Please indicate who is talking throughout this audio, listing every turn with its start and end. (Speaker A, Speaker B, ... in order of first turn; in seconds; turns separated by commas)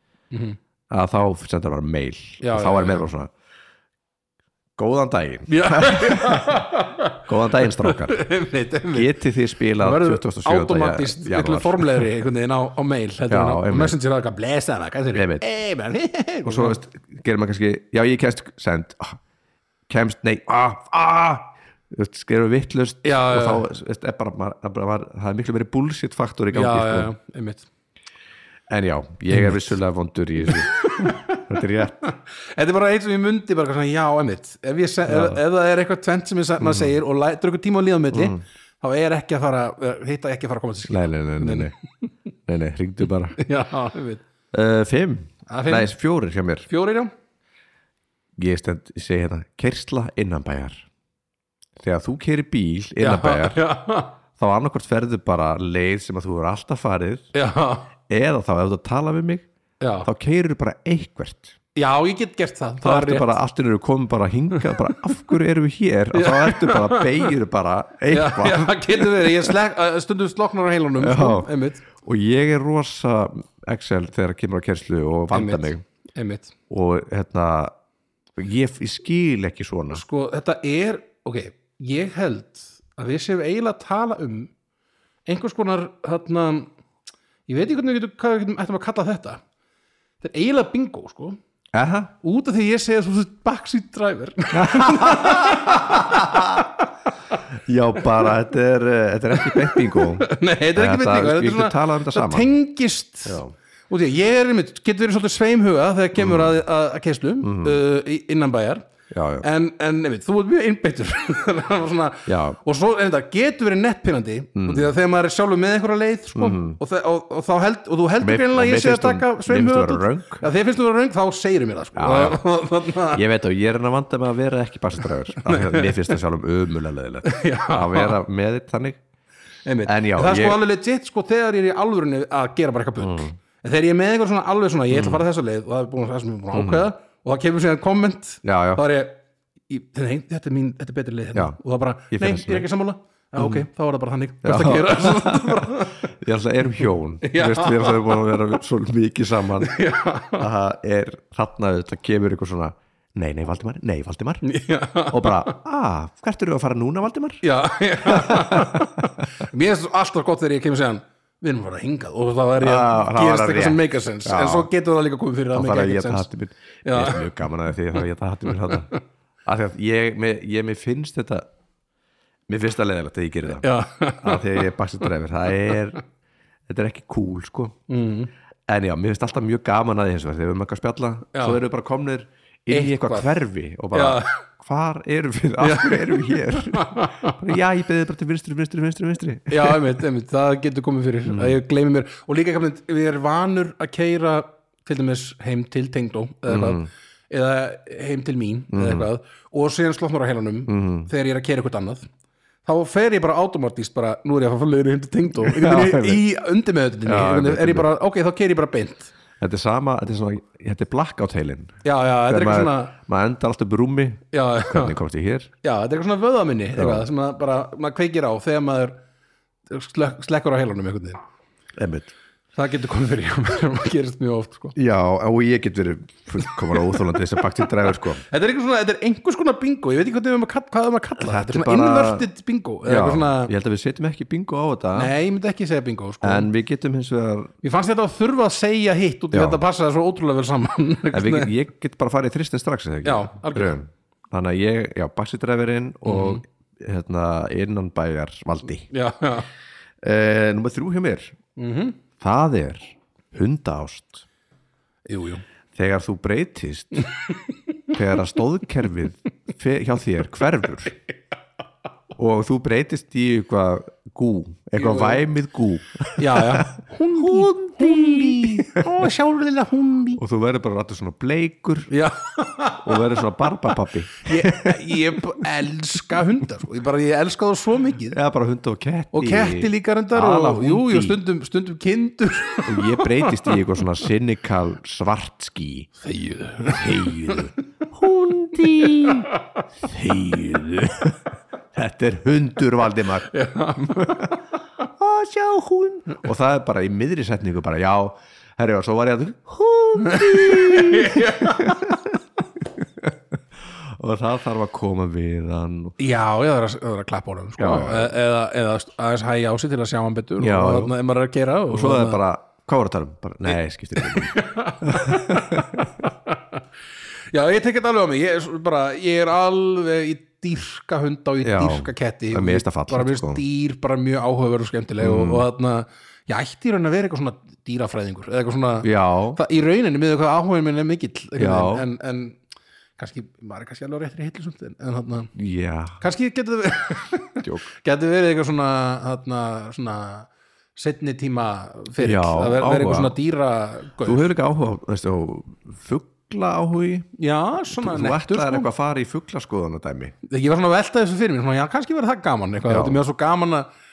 Speaker A: 0.3-0.6, Speaker B: 0.9-3.3, Speaker A: 2.4-3.1, Speaker B: 4.8-6.6, Speaker A: 5.5-9.1, Speaker B: 7.2-8.2, Speaker B: 8.9-12.1, Speaker A: 9.8-16.8, Speaker B: 13.3-14.0, Speaker B: 15.1-15.4, Speaker B: 16.4-19.2, Speaker B: 19.9-27.1, Speaker A: 23.0-23.6, Speaker A: 26.5-27.7, Speaker B: 28.7-32.0, Speaker A: 30.4-31.4, Speaker A: 32.0-41.7, Speaker B: 35.1-35.4, Speaker B: 36.6-37.0, Speaker B: 38.1-38.4, Speaker B: 40.9-41.7, Speaker B: 42.5-43.4, Speaker A: 43.4-44.2, Speaker B: 44.5-46.7, Speaker A: 45.5-45.9, Speaker A: 46.7-47.1, Speaker B: 48.4-50.8, Speaker B: 51.8-53.6, Speaker A: 53.0-54.1, Speaker B: 54.4-57.3, Speaker A: 57.3-57.9, Speaker B: 58.1-59.5, Speaker A: 59.8-60.1, Speaker B: 60.0-61.6, Speaker A: 61.8-63.4, Speaker B: 62.8-69.5, Speaker A: 64.6-64.9, Speaker A: 66.1-67.3, Speaker A: 68.1-71.8, Speaker B: 71.0-75.8, Speaker A: 75.3-76.5, Speaker B: 76.7-77.7, Speaker B: 78.4-80.0, Speaker A: 79.9-84.5, Speaker A: 85.2-86.7, Speaker A: 87.5-89.4, Speaker A: 90.2-91.4, Speaker B: 91.7-92.1, Speaker A: 92.2-97.4, Speaker B: 94.5-96.7, Speaker B: 97.5-102.5, Speaker A: 99.4-108.8, Speaker B: 103.2-103.5, Speaker B: 106.2-106.5, Speaker B: 107.4-107.8, Speaker B: 109.1-109.5, Speaker A: 109.4-123.2, Speaker B: 112.3-112.6, Speaker B: 114.5-114.9, Speaker B: 116.3-116.8, Speaker B: 118.2-120.4, Speaker B: 122.0-122.4, Speaker B: 123.1-129.0, Speaker A: 125.4-126.2, Speaker A: 127.2-128.2, Speaker A: 129.7-146.1, Speaker B: 129.8-130.6, Speaker B: 133.0-133.3, Speaker B: 134.9-135.2, Speaker B: 136.5-136.8, Speaker B: 138.4-138.8, Speaker B: 142.1-142.7, Speaker B: 143.4-143.7, Speaker B: 144.4-154.5, Speaker A: 147.2-148.3, Speaker A: 149.6-150.4, Speaker A: 154.4-155.6, Speaker B: 155.1-157.4, Speaker A: 157.4-166.3, Speaker B: 158.0-159.2, Speaker B: 162.6-164.7, Speaker B: 165.5-168.9, Speaker A: 166.8-167.3, Speaker A: 168.7-169.0, Speaker B: 169.4-171.5, Speaker B: 172.5-173.7, Speaker A: 173.6-174.7, Speaker B: 174.2-176.0, Speaker B: 176.7-177.8, Speaker A: 177.9-178.3, Speaker B: 178.7-189.9, Speaker A: 181.3-181.6, Speaker A: 182.7-183.4, Speaker A: 183.9-184.4, Speaker A: 185.6-187.4, Speaker A: 189.5-202.1, Speaker B: 191.3-191.6, Speaker B: 196.5-196.9, Speaker B: 198.7-199.1, Speaker B: 200.7-201.1, Speaker A: 202.6-209.1, Speaker B: 205.3-206.2, Speaker B: 207.0-207.9, Speaker B: 209.4-215.5, Speaker A: 211.8-213.0, Speaker A: 214.3-214.9, Speaker A: 215.6-219.0, Speaker B: 216.8-217.1, Speaker A: 219.7-221.2, Speaker B: 221.8-222.1, Speaker A: 222.5-224.8, Speaker B: 224.7-228.2, Speaker A: 226.4-233.5, Speaker B: 231.2-232.3, Speaker B: 232.8-235.1, Speaker A: 234.9-236.5, Speaker B: 236.2-237.5, Speaker A: 237.6-241.5, Speaker B: 239.3-239.6, Speaker B: 241.1-248.9, Speaker A: 243.0-243.8, Speaker A: 246.0-246.4, Speaker A: 248.9-249.5, Speaker B: 250.0-251.3, Speaker A: 251.6-252.0, Speaker B: 252.2-254.2, Speaker A: 255.1-255.4, Speaker B: 255.7-257.1, Speaker A: 257.1-257.5, Speaker B: 257.9-260.9, Speaker B: 262.2-269.1, Speaker A: 264.8-265.2, Speaker A: 266.2-270.2, Speaker B: 270.2-271.9, Speaker A: 271.9-273.2, Speaker B: 272.8-275.4, Speaker A: 274.1-278.2, Speaker B: 278.1-281.2, Speaker A: 279.1-283.6, Speaker B: 282.6-285.9, Speaker A: 286.0-287.6, Speaker B: 286.6-289.3, Speaker A: 288.5-289.6, Speaker B: 289.8-291.2, Speaker B: 291.7-293.3, Speaker A: 293.3-294.4, Speaker B: 293.9-306.0, Speaker A: 300.0-301.9, Speaker A: 306.0-312.2, Speaker B: 307.6-308.1, Speaker B: 310.4-310.9, Speaker B: 311.7-315.9, Speaker A: 313.9-316.6, Speaker A: 317.3-332.4, Speaker B: 321.4-323.4, Speaker B: 325.0-325.4, Speaker B: 328.8-329.4, Speaker B: 331.4-331.9, Speaker A: 333.0-335.3, Speaker B: 335.3-336.0, Speaker A: 336.0-344.3, Speaker B: 337.4-337.7, Speaker B: 342.0-343.1, Speaker B: 344.0-347.1, Speaker A: 347.2-348.7, Speaker B: 347.7-350.1, Speaker A: 350.2-353.7, Speaker B: 352.7-353.0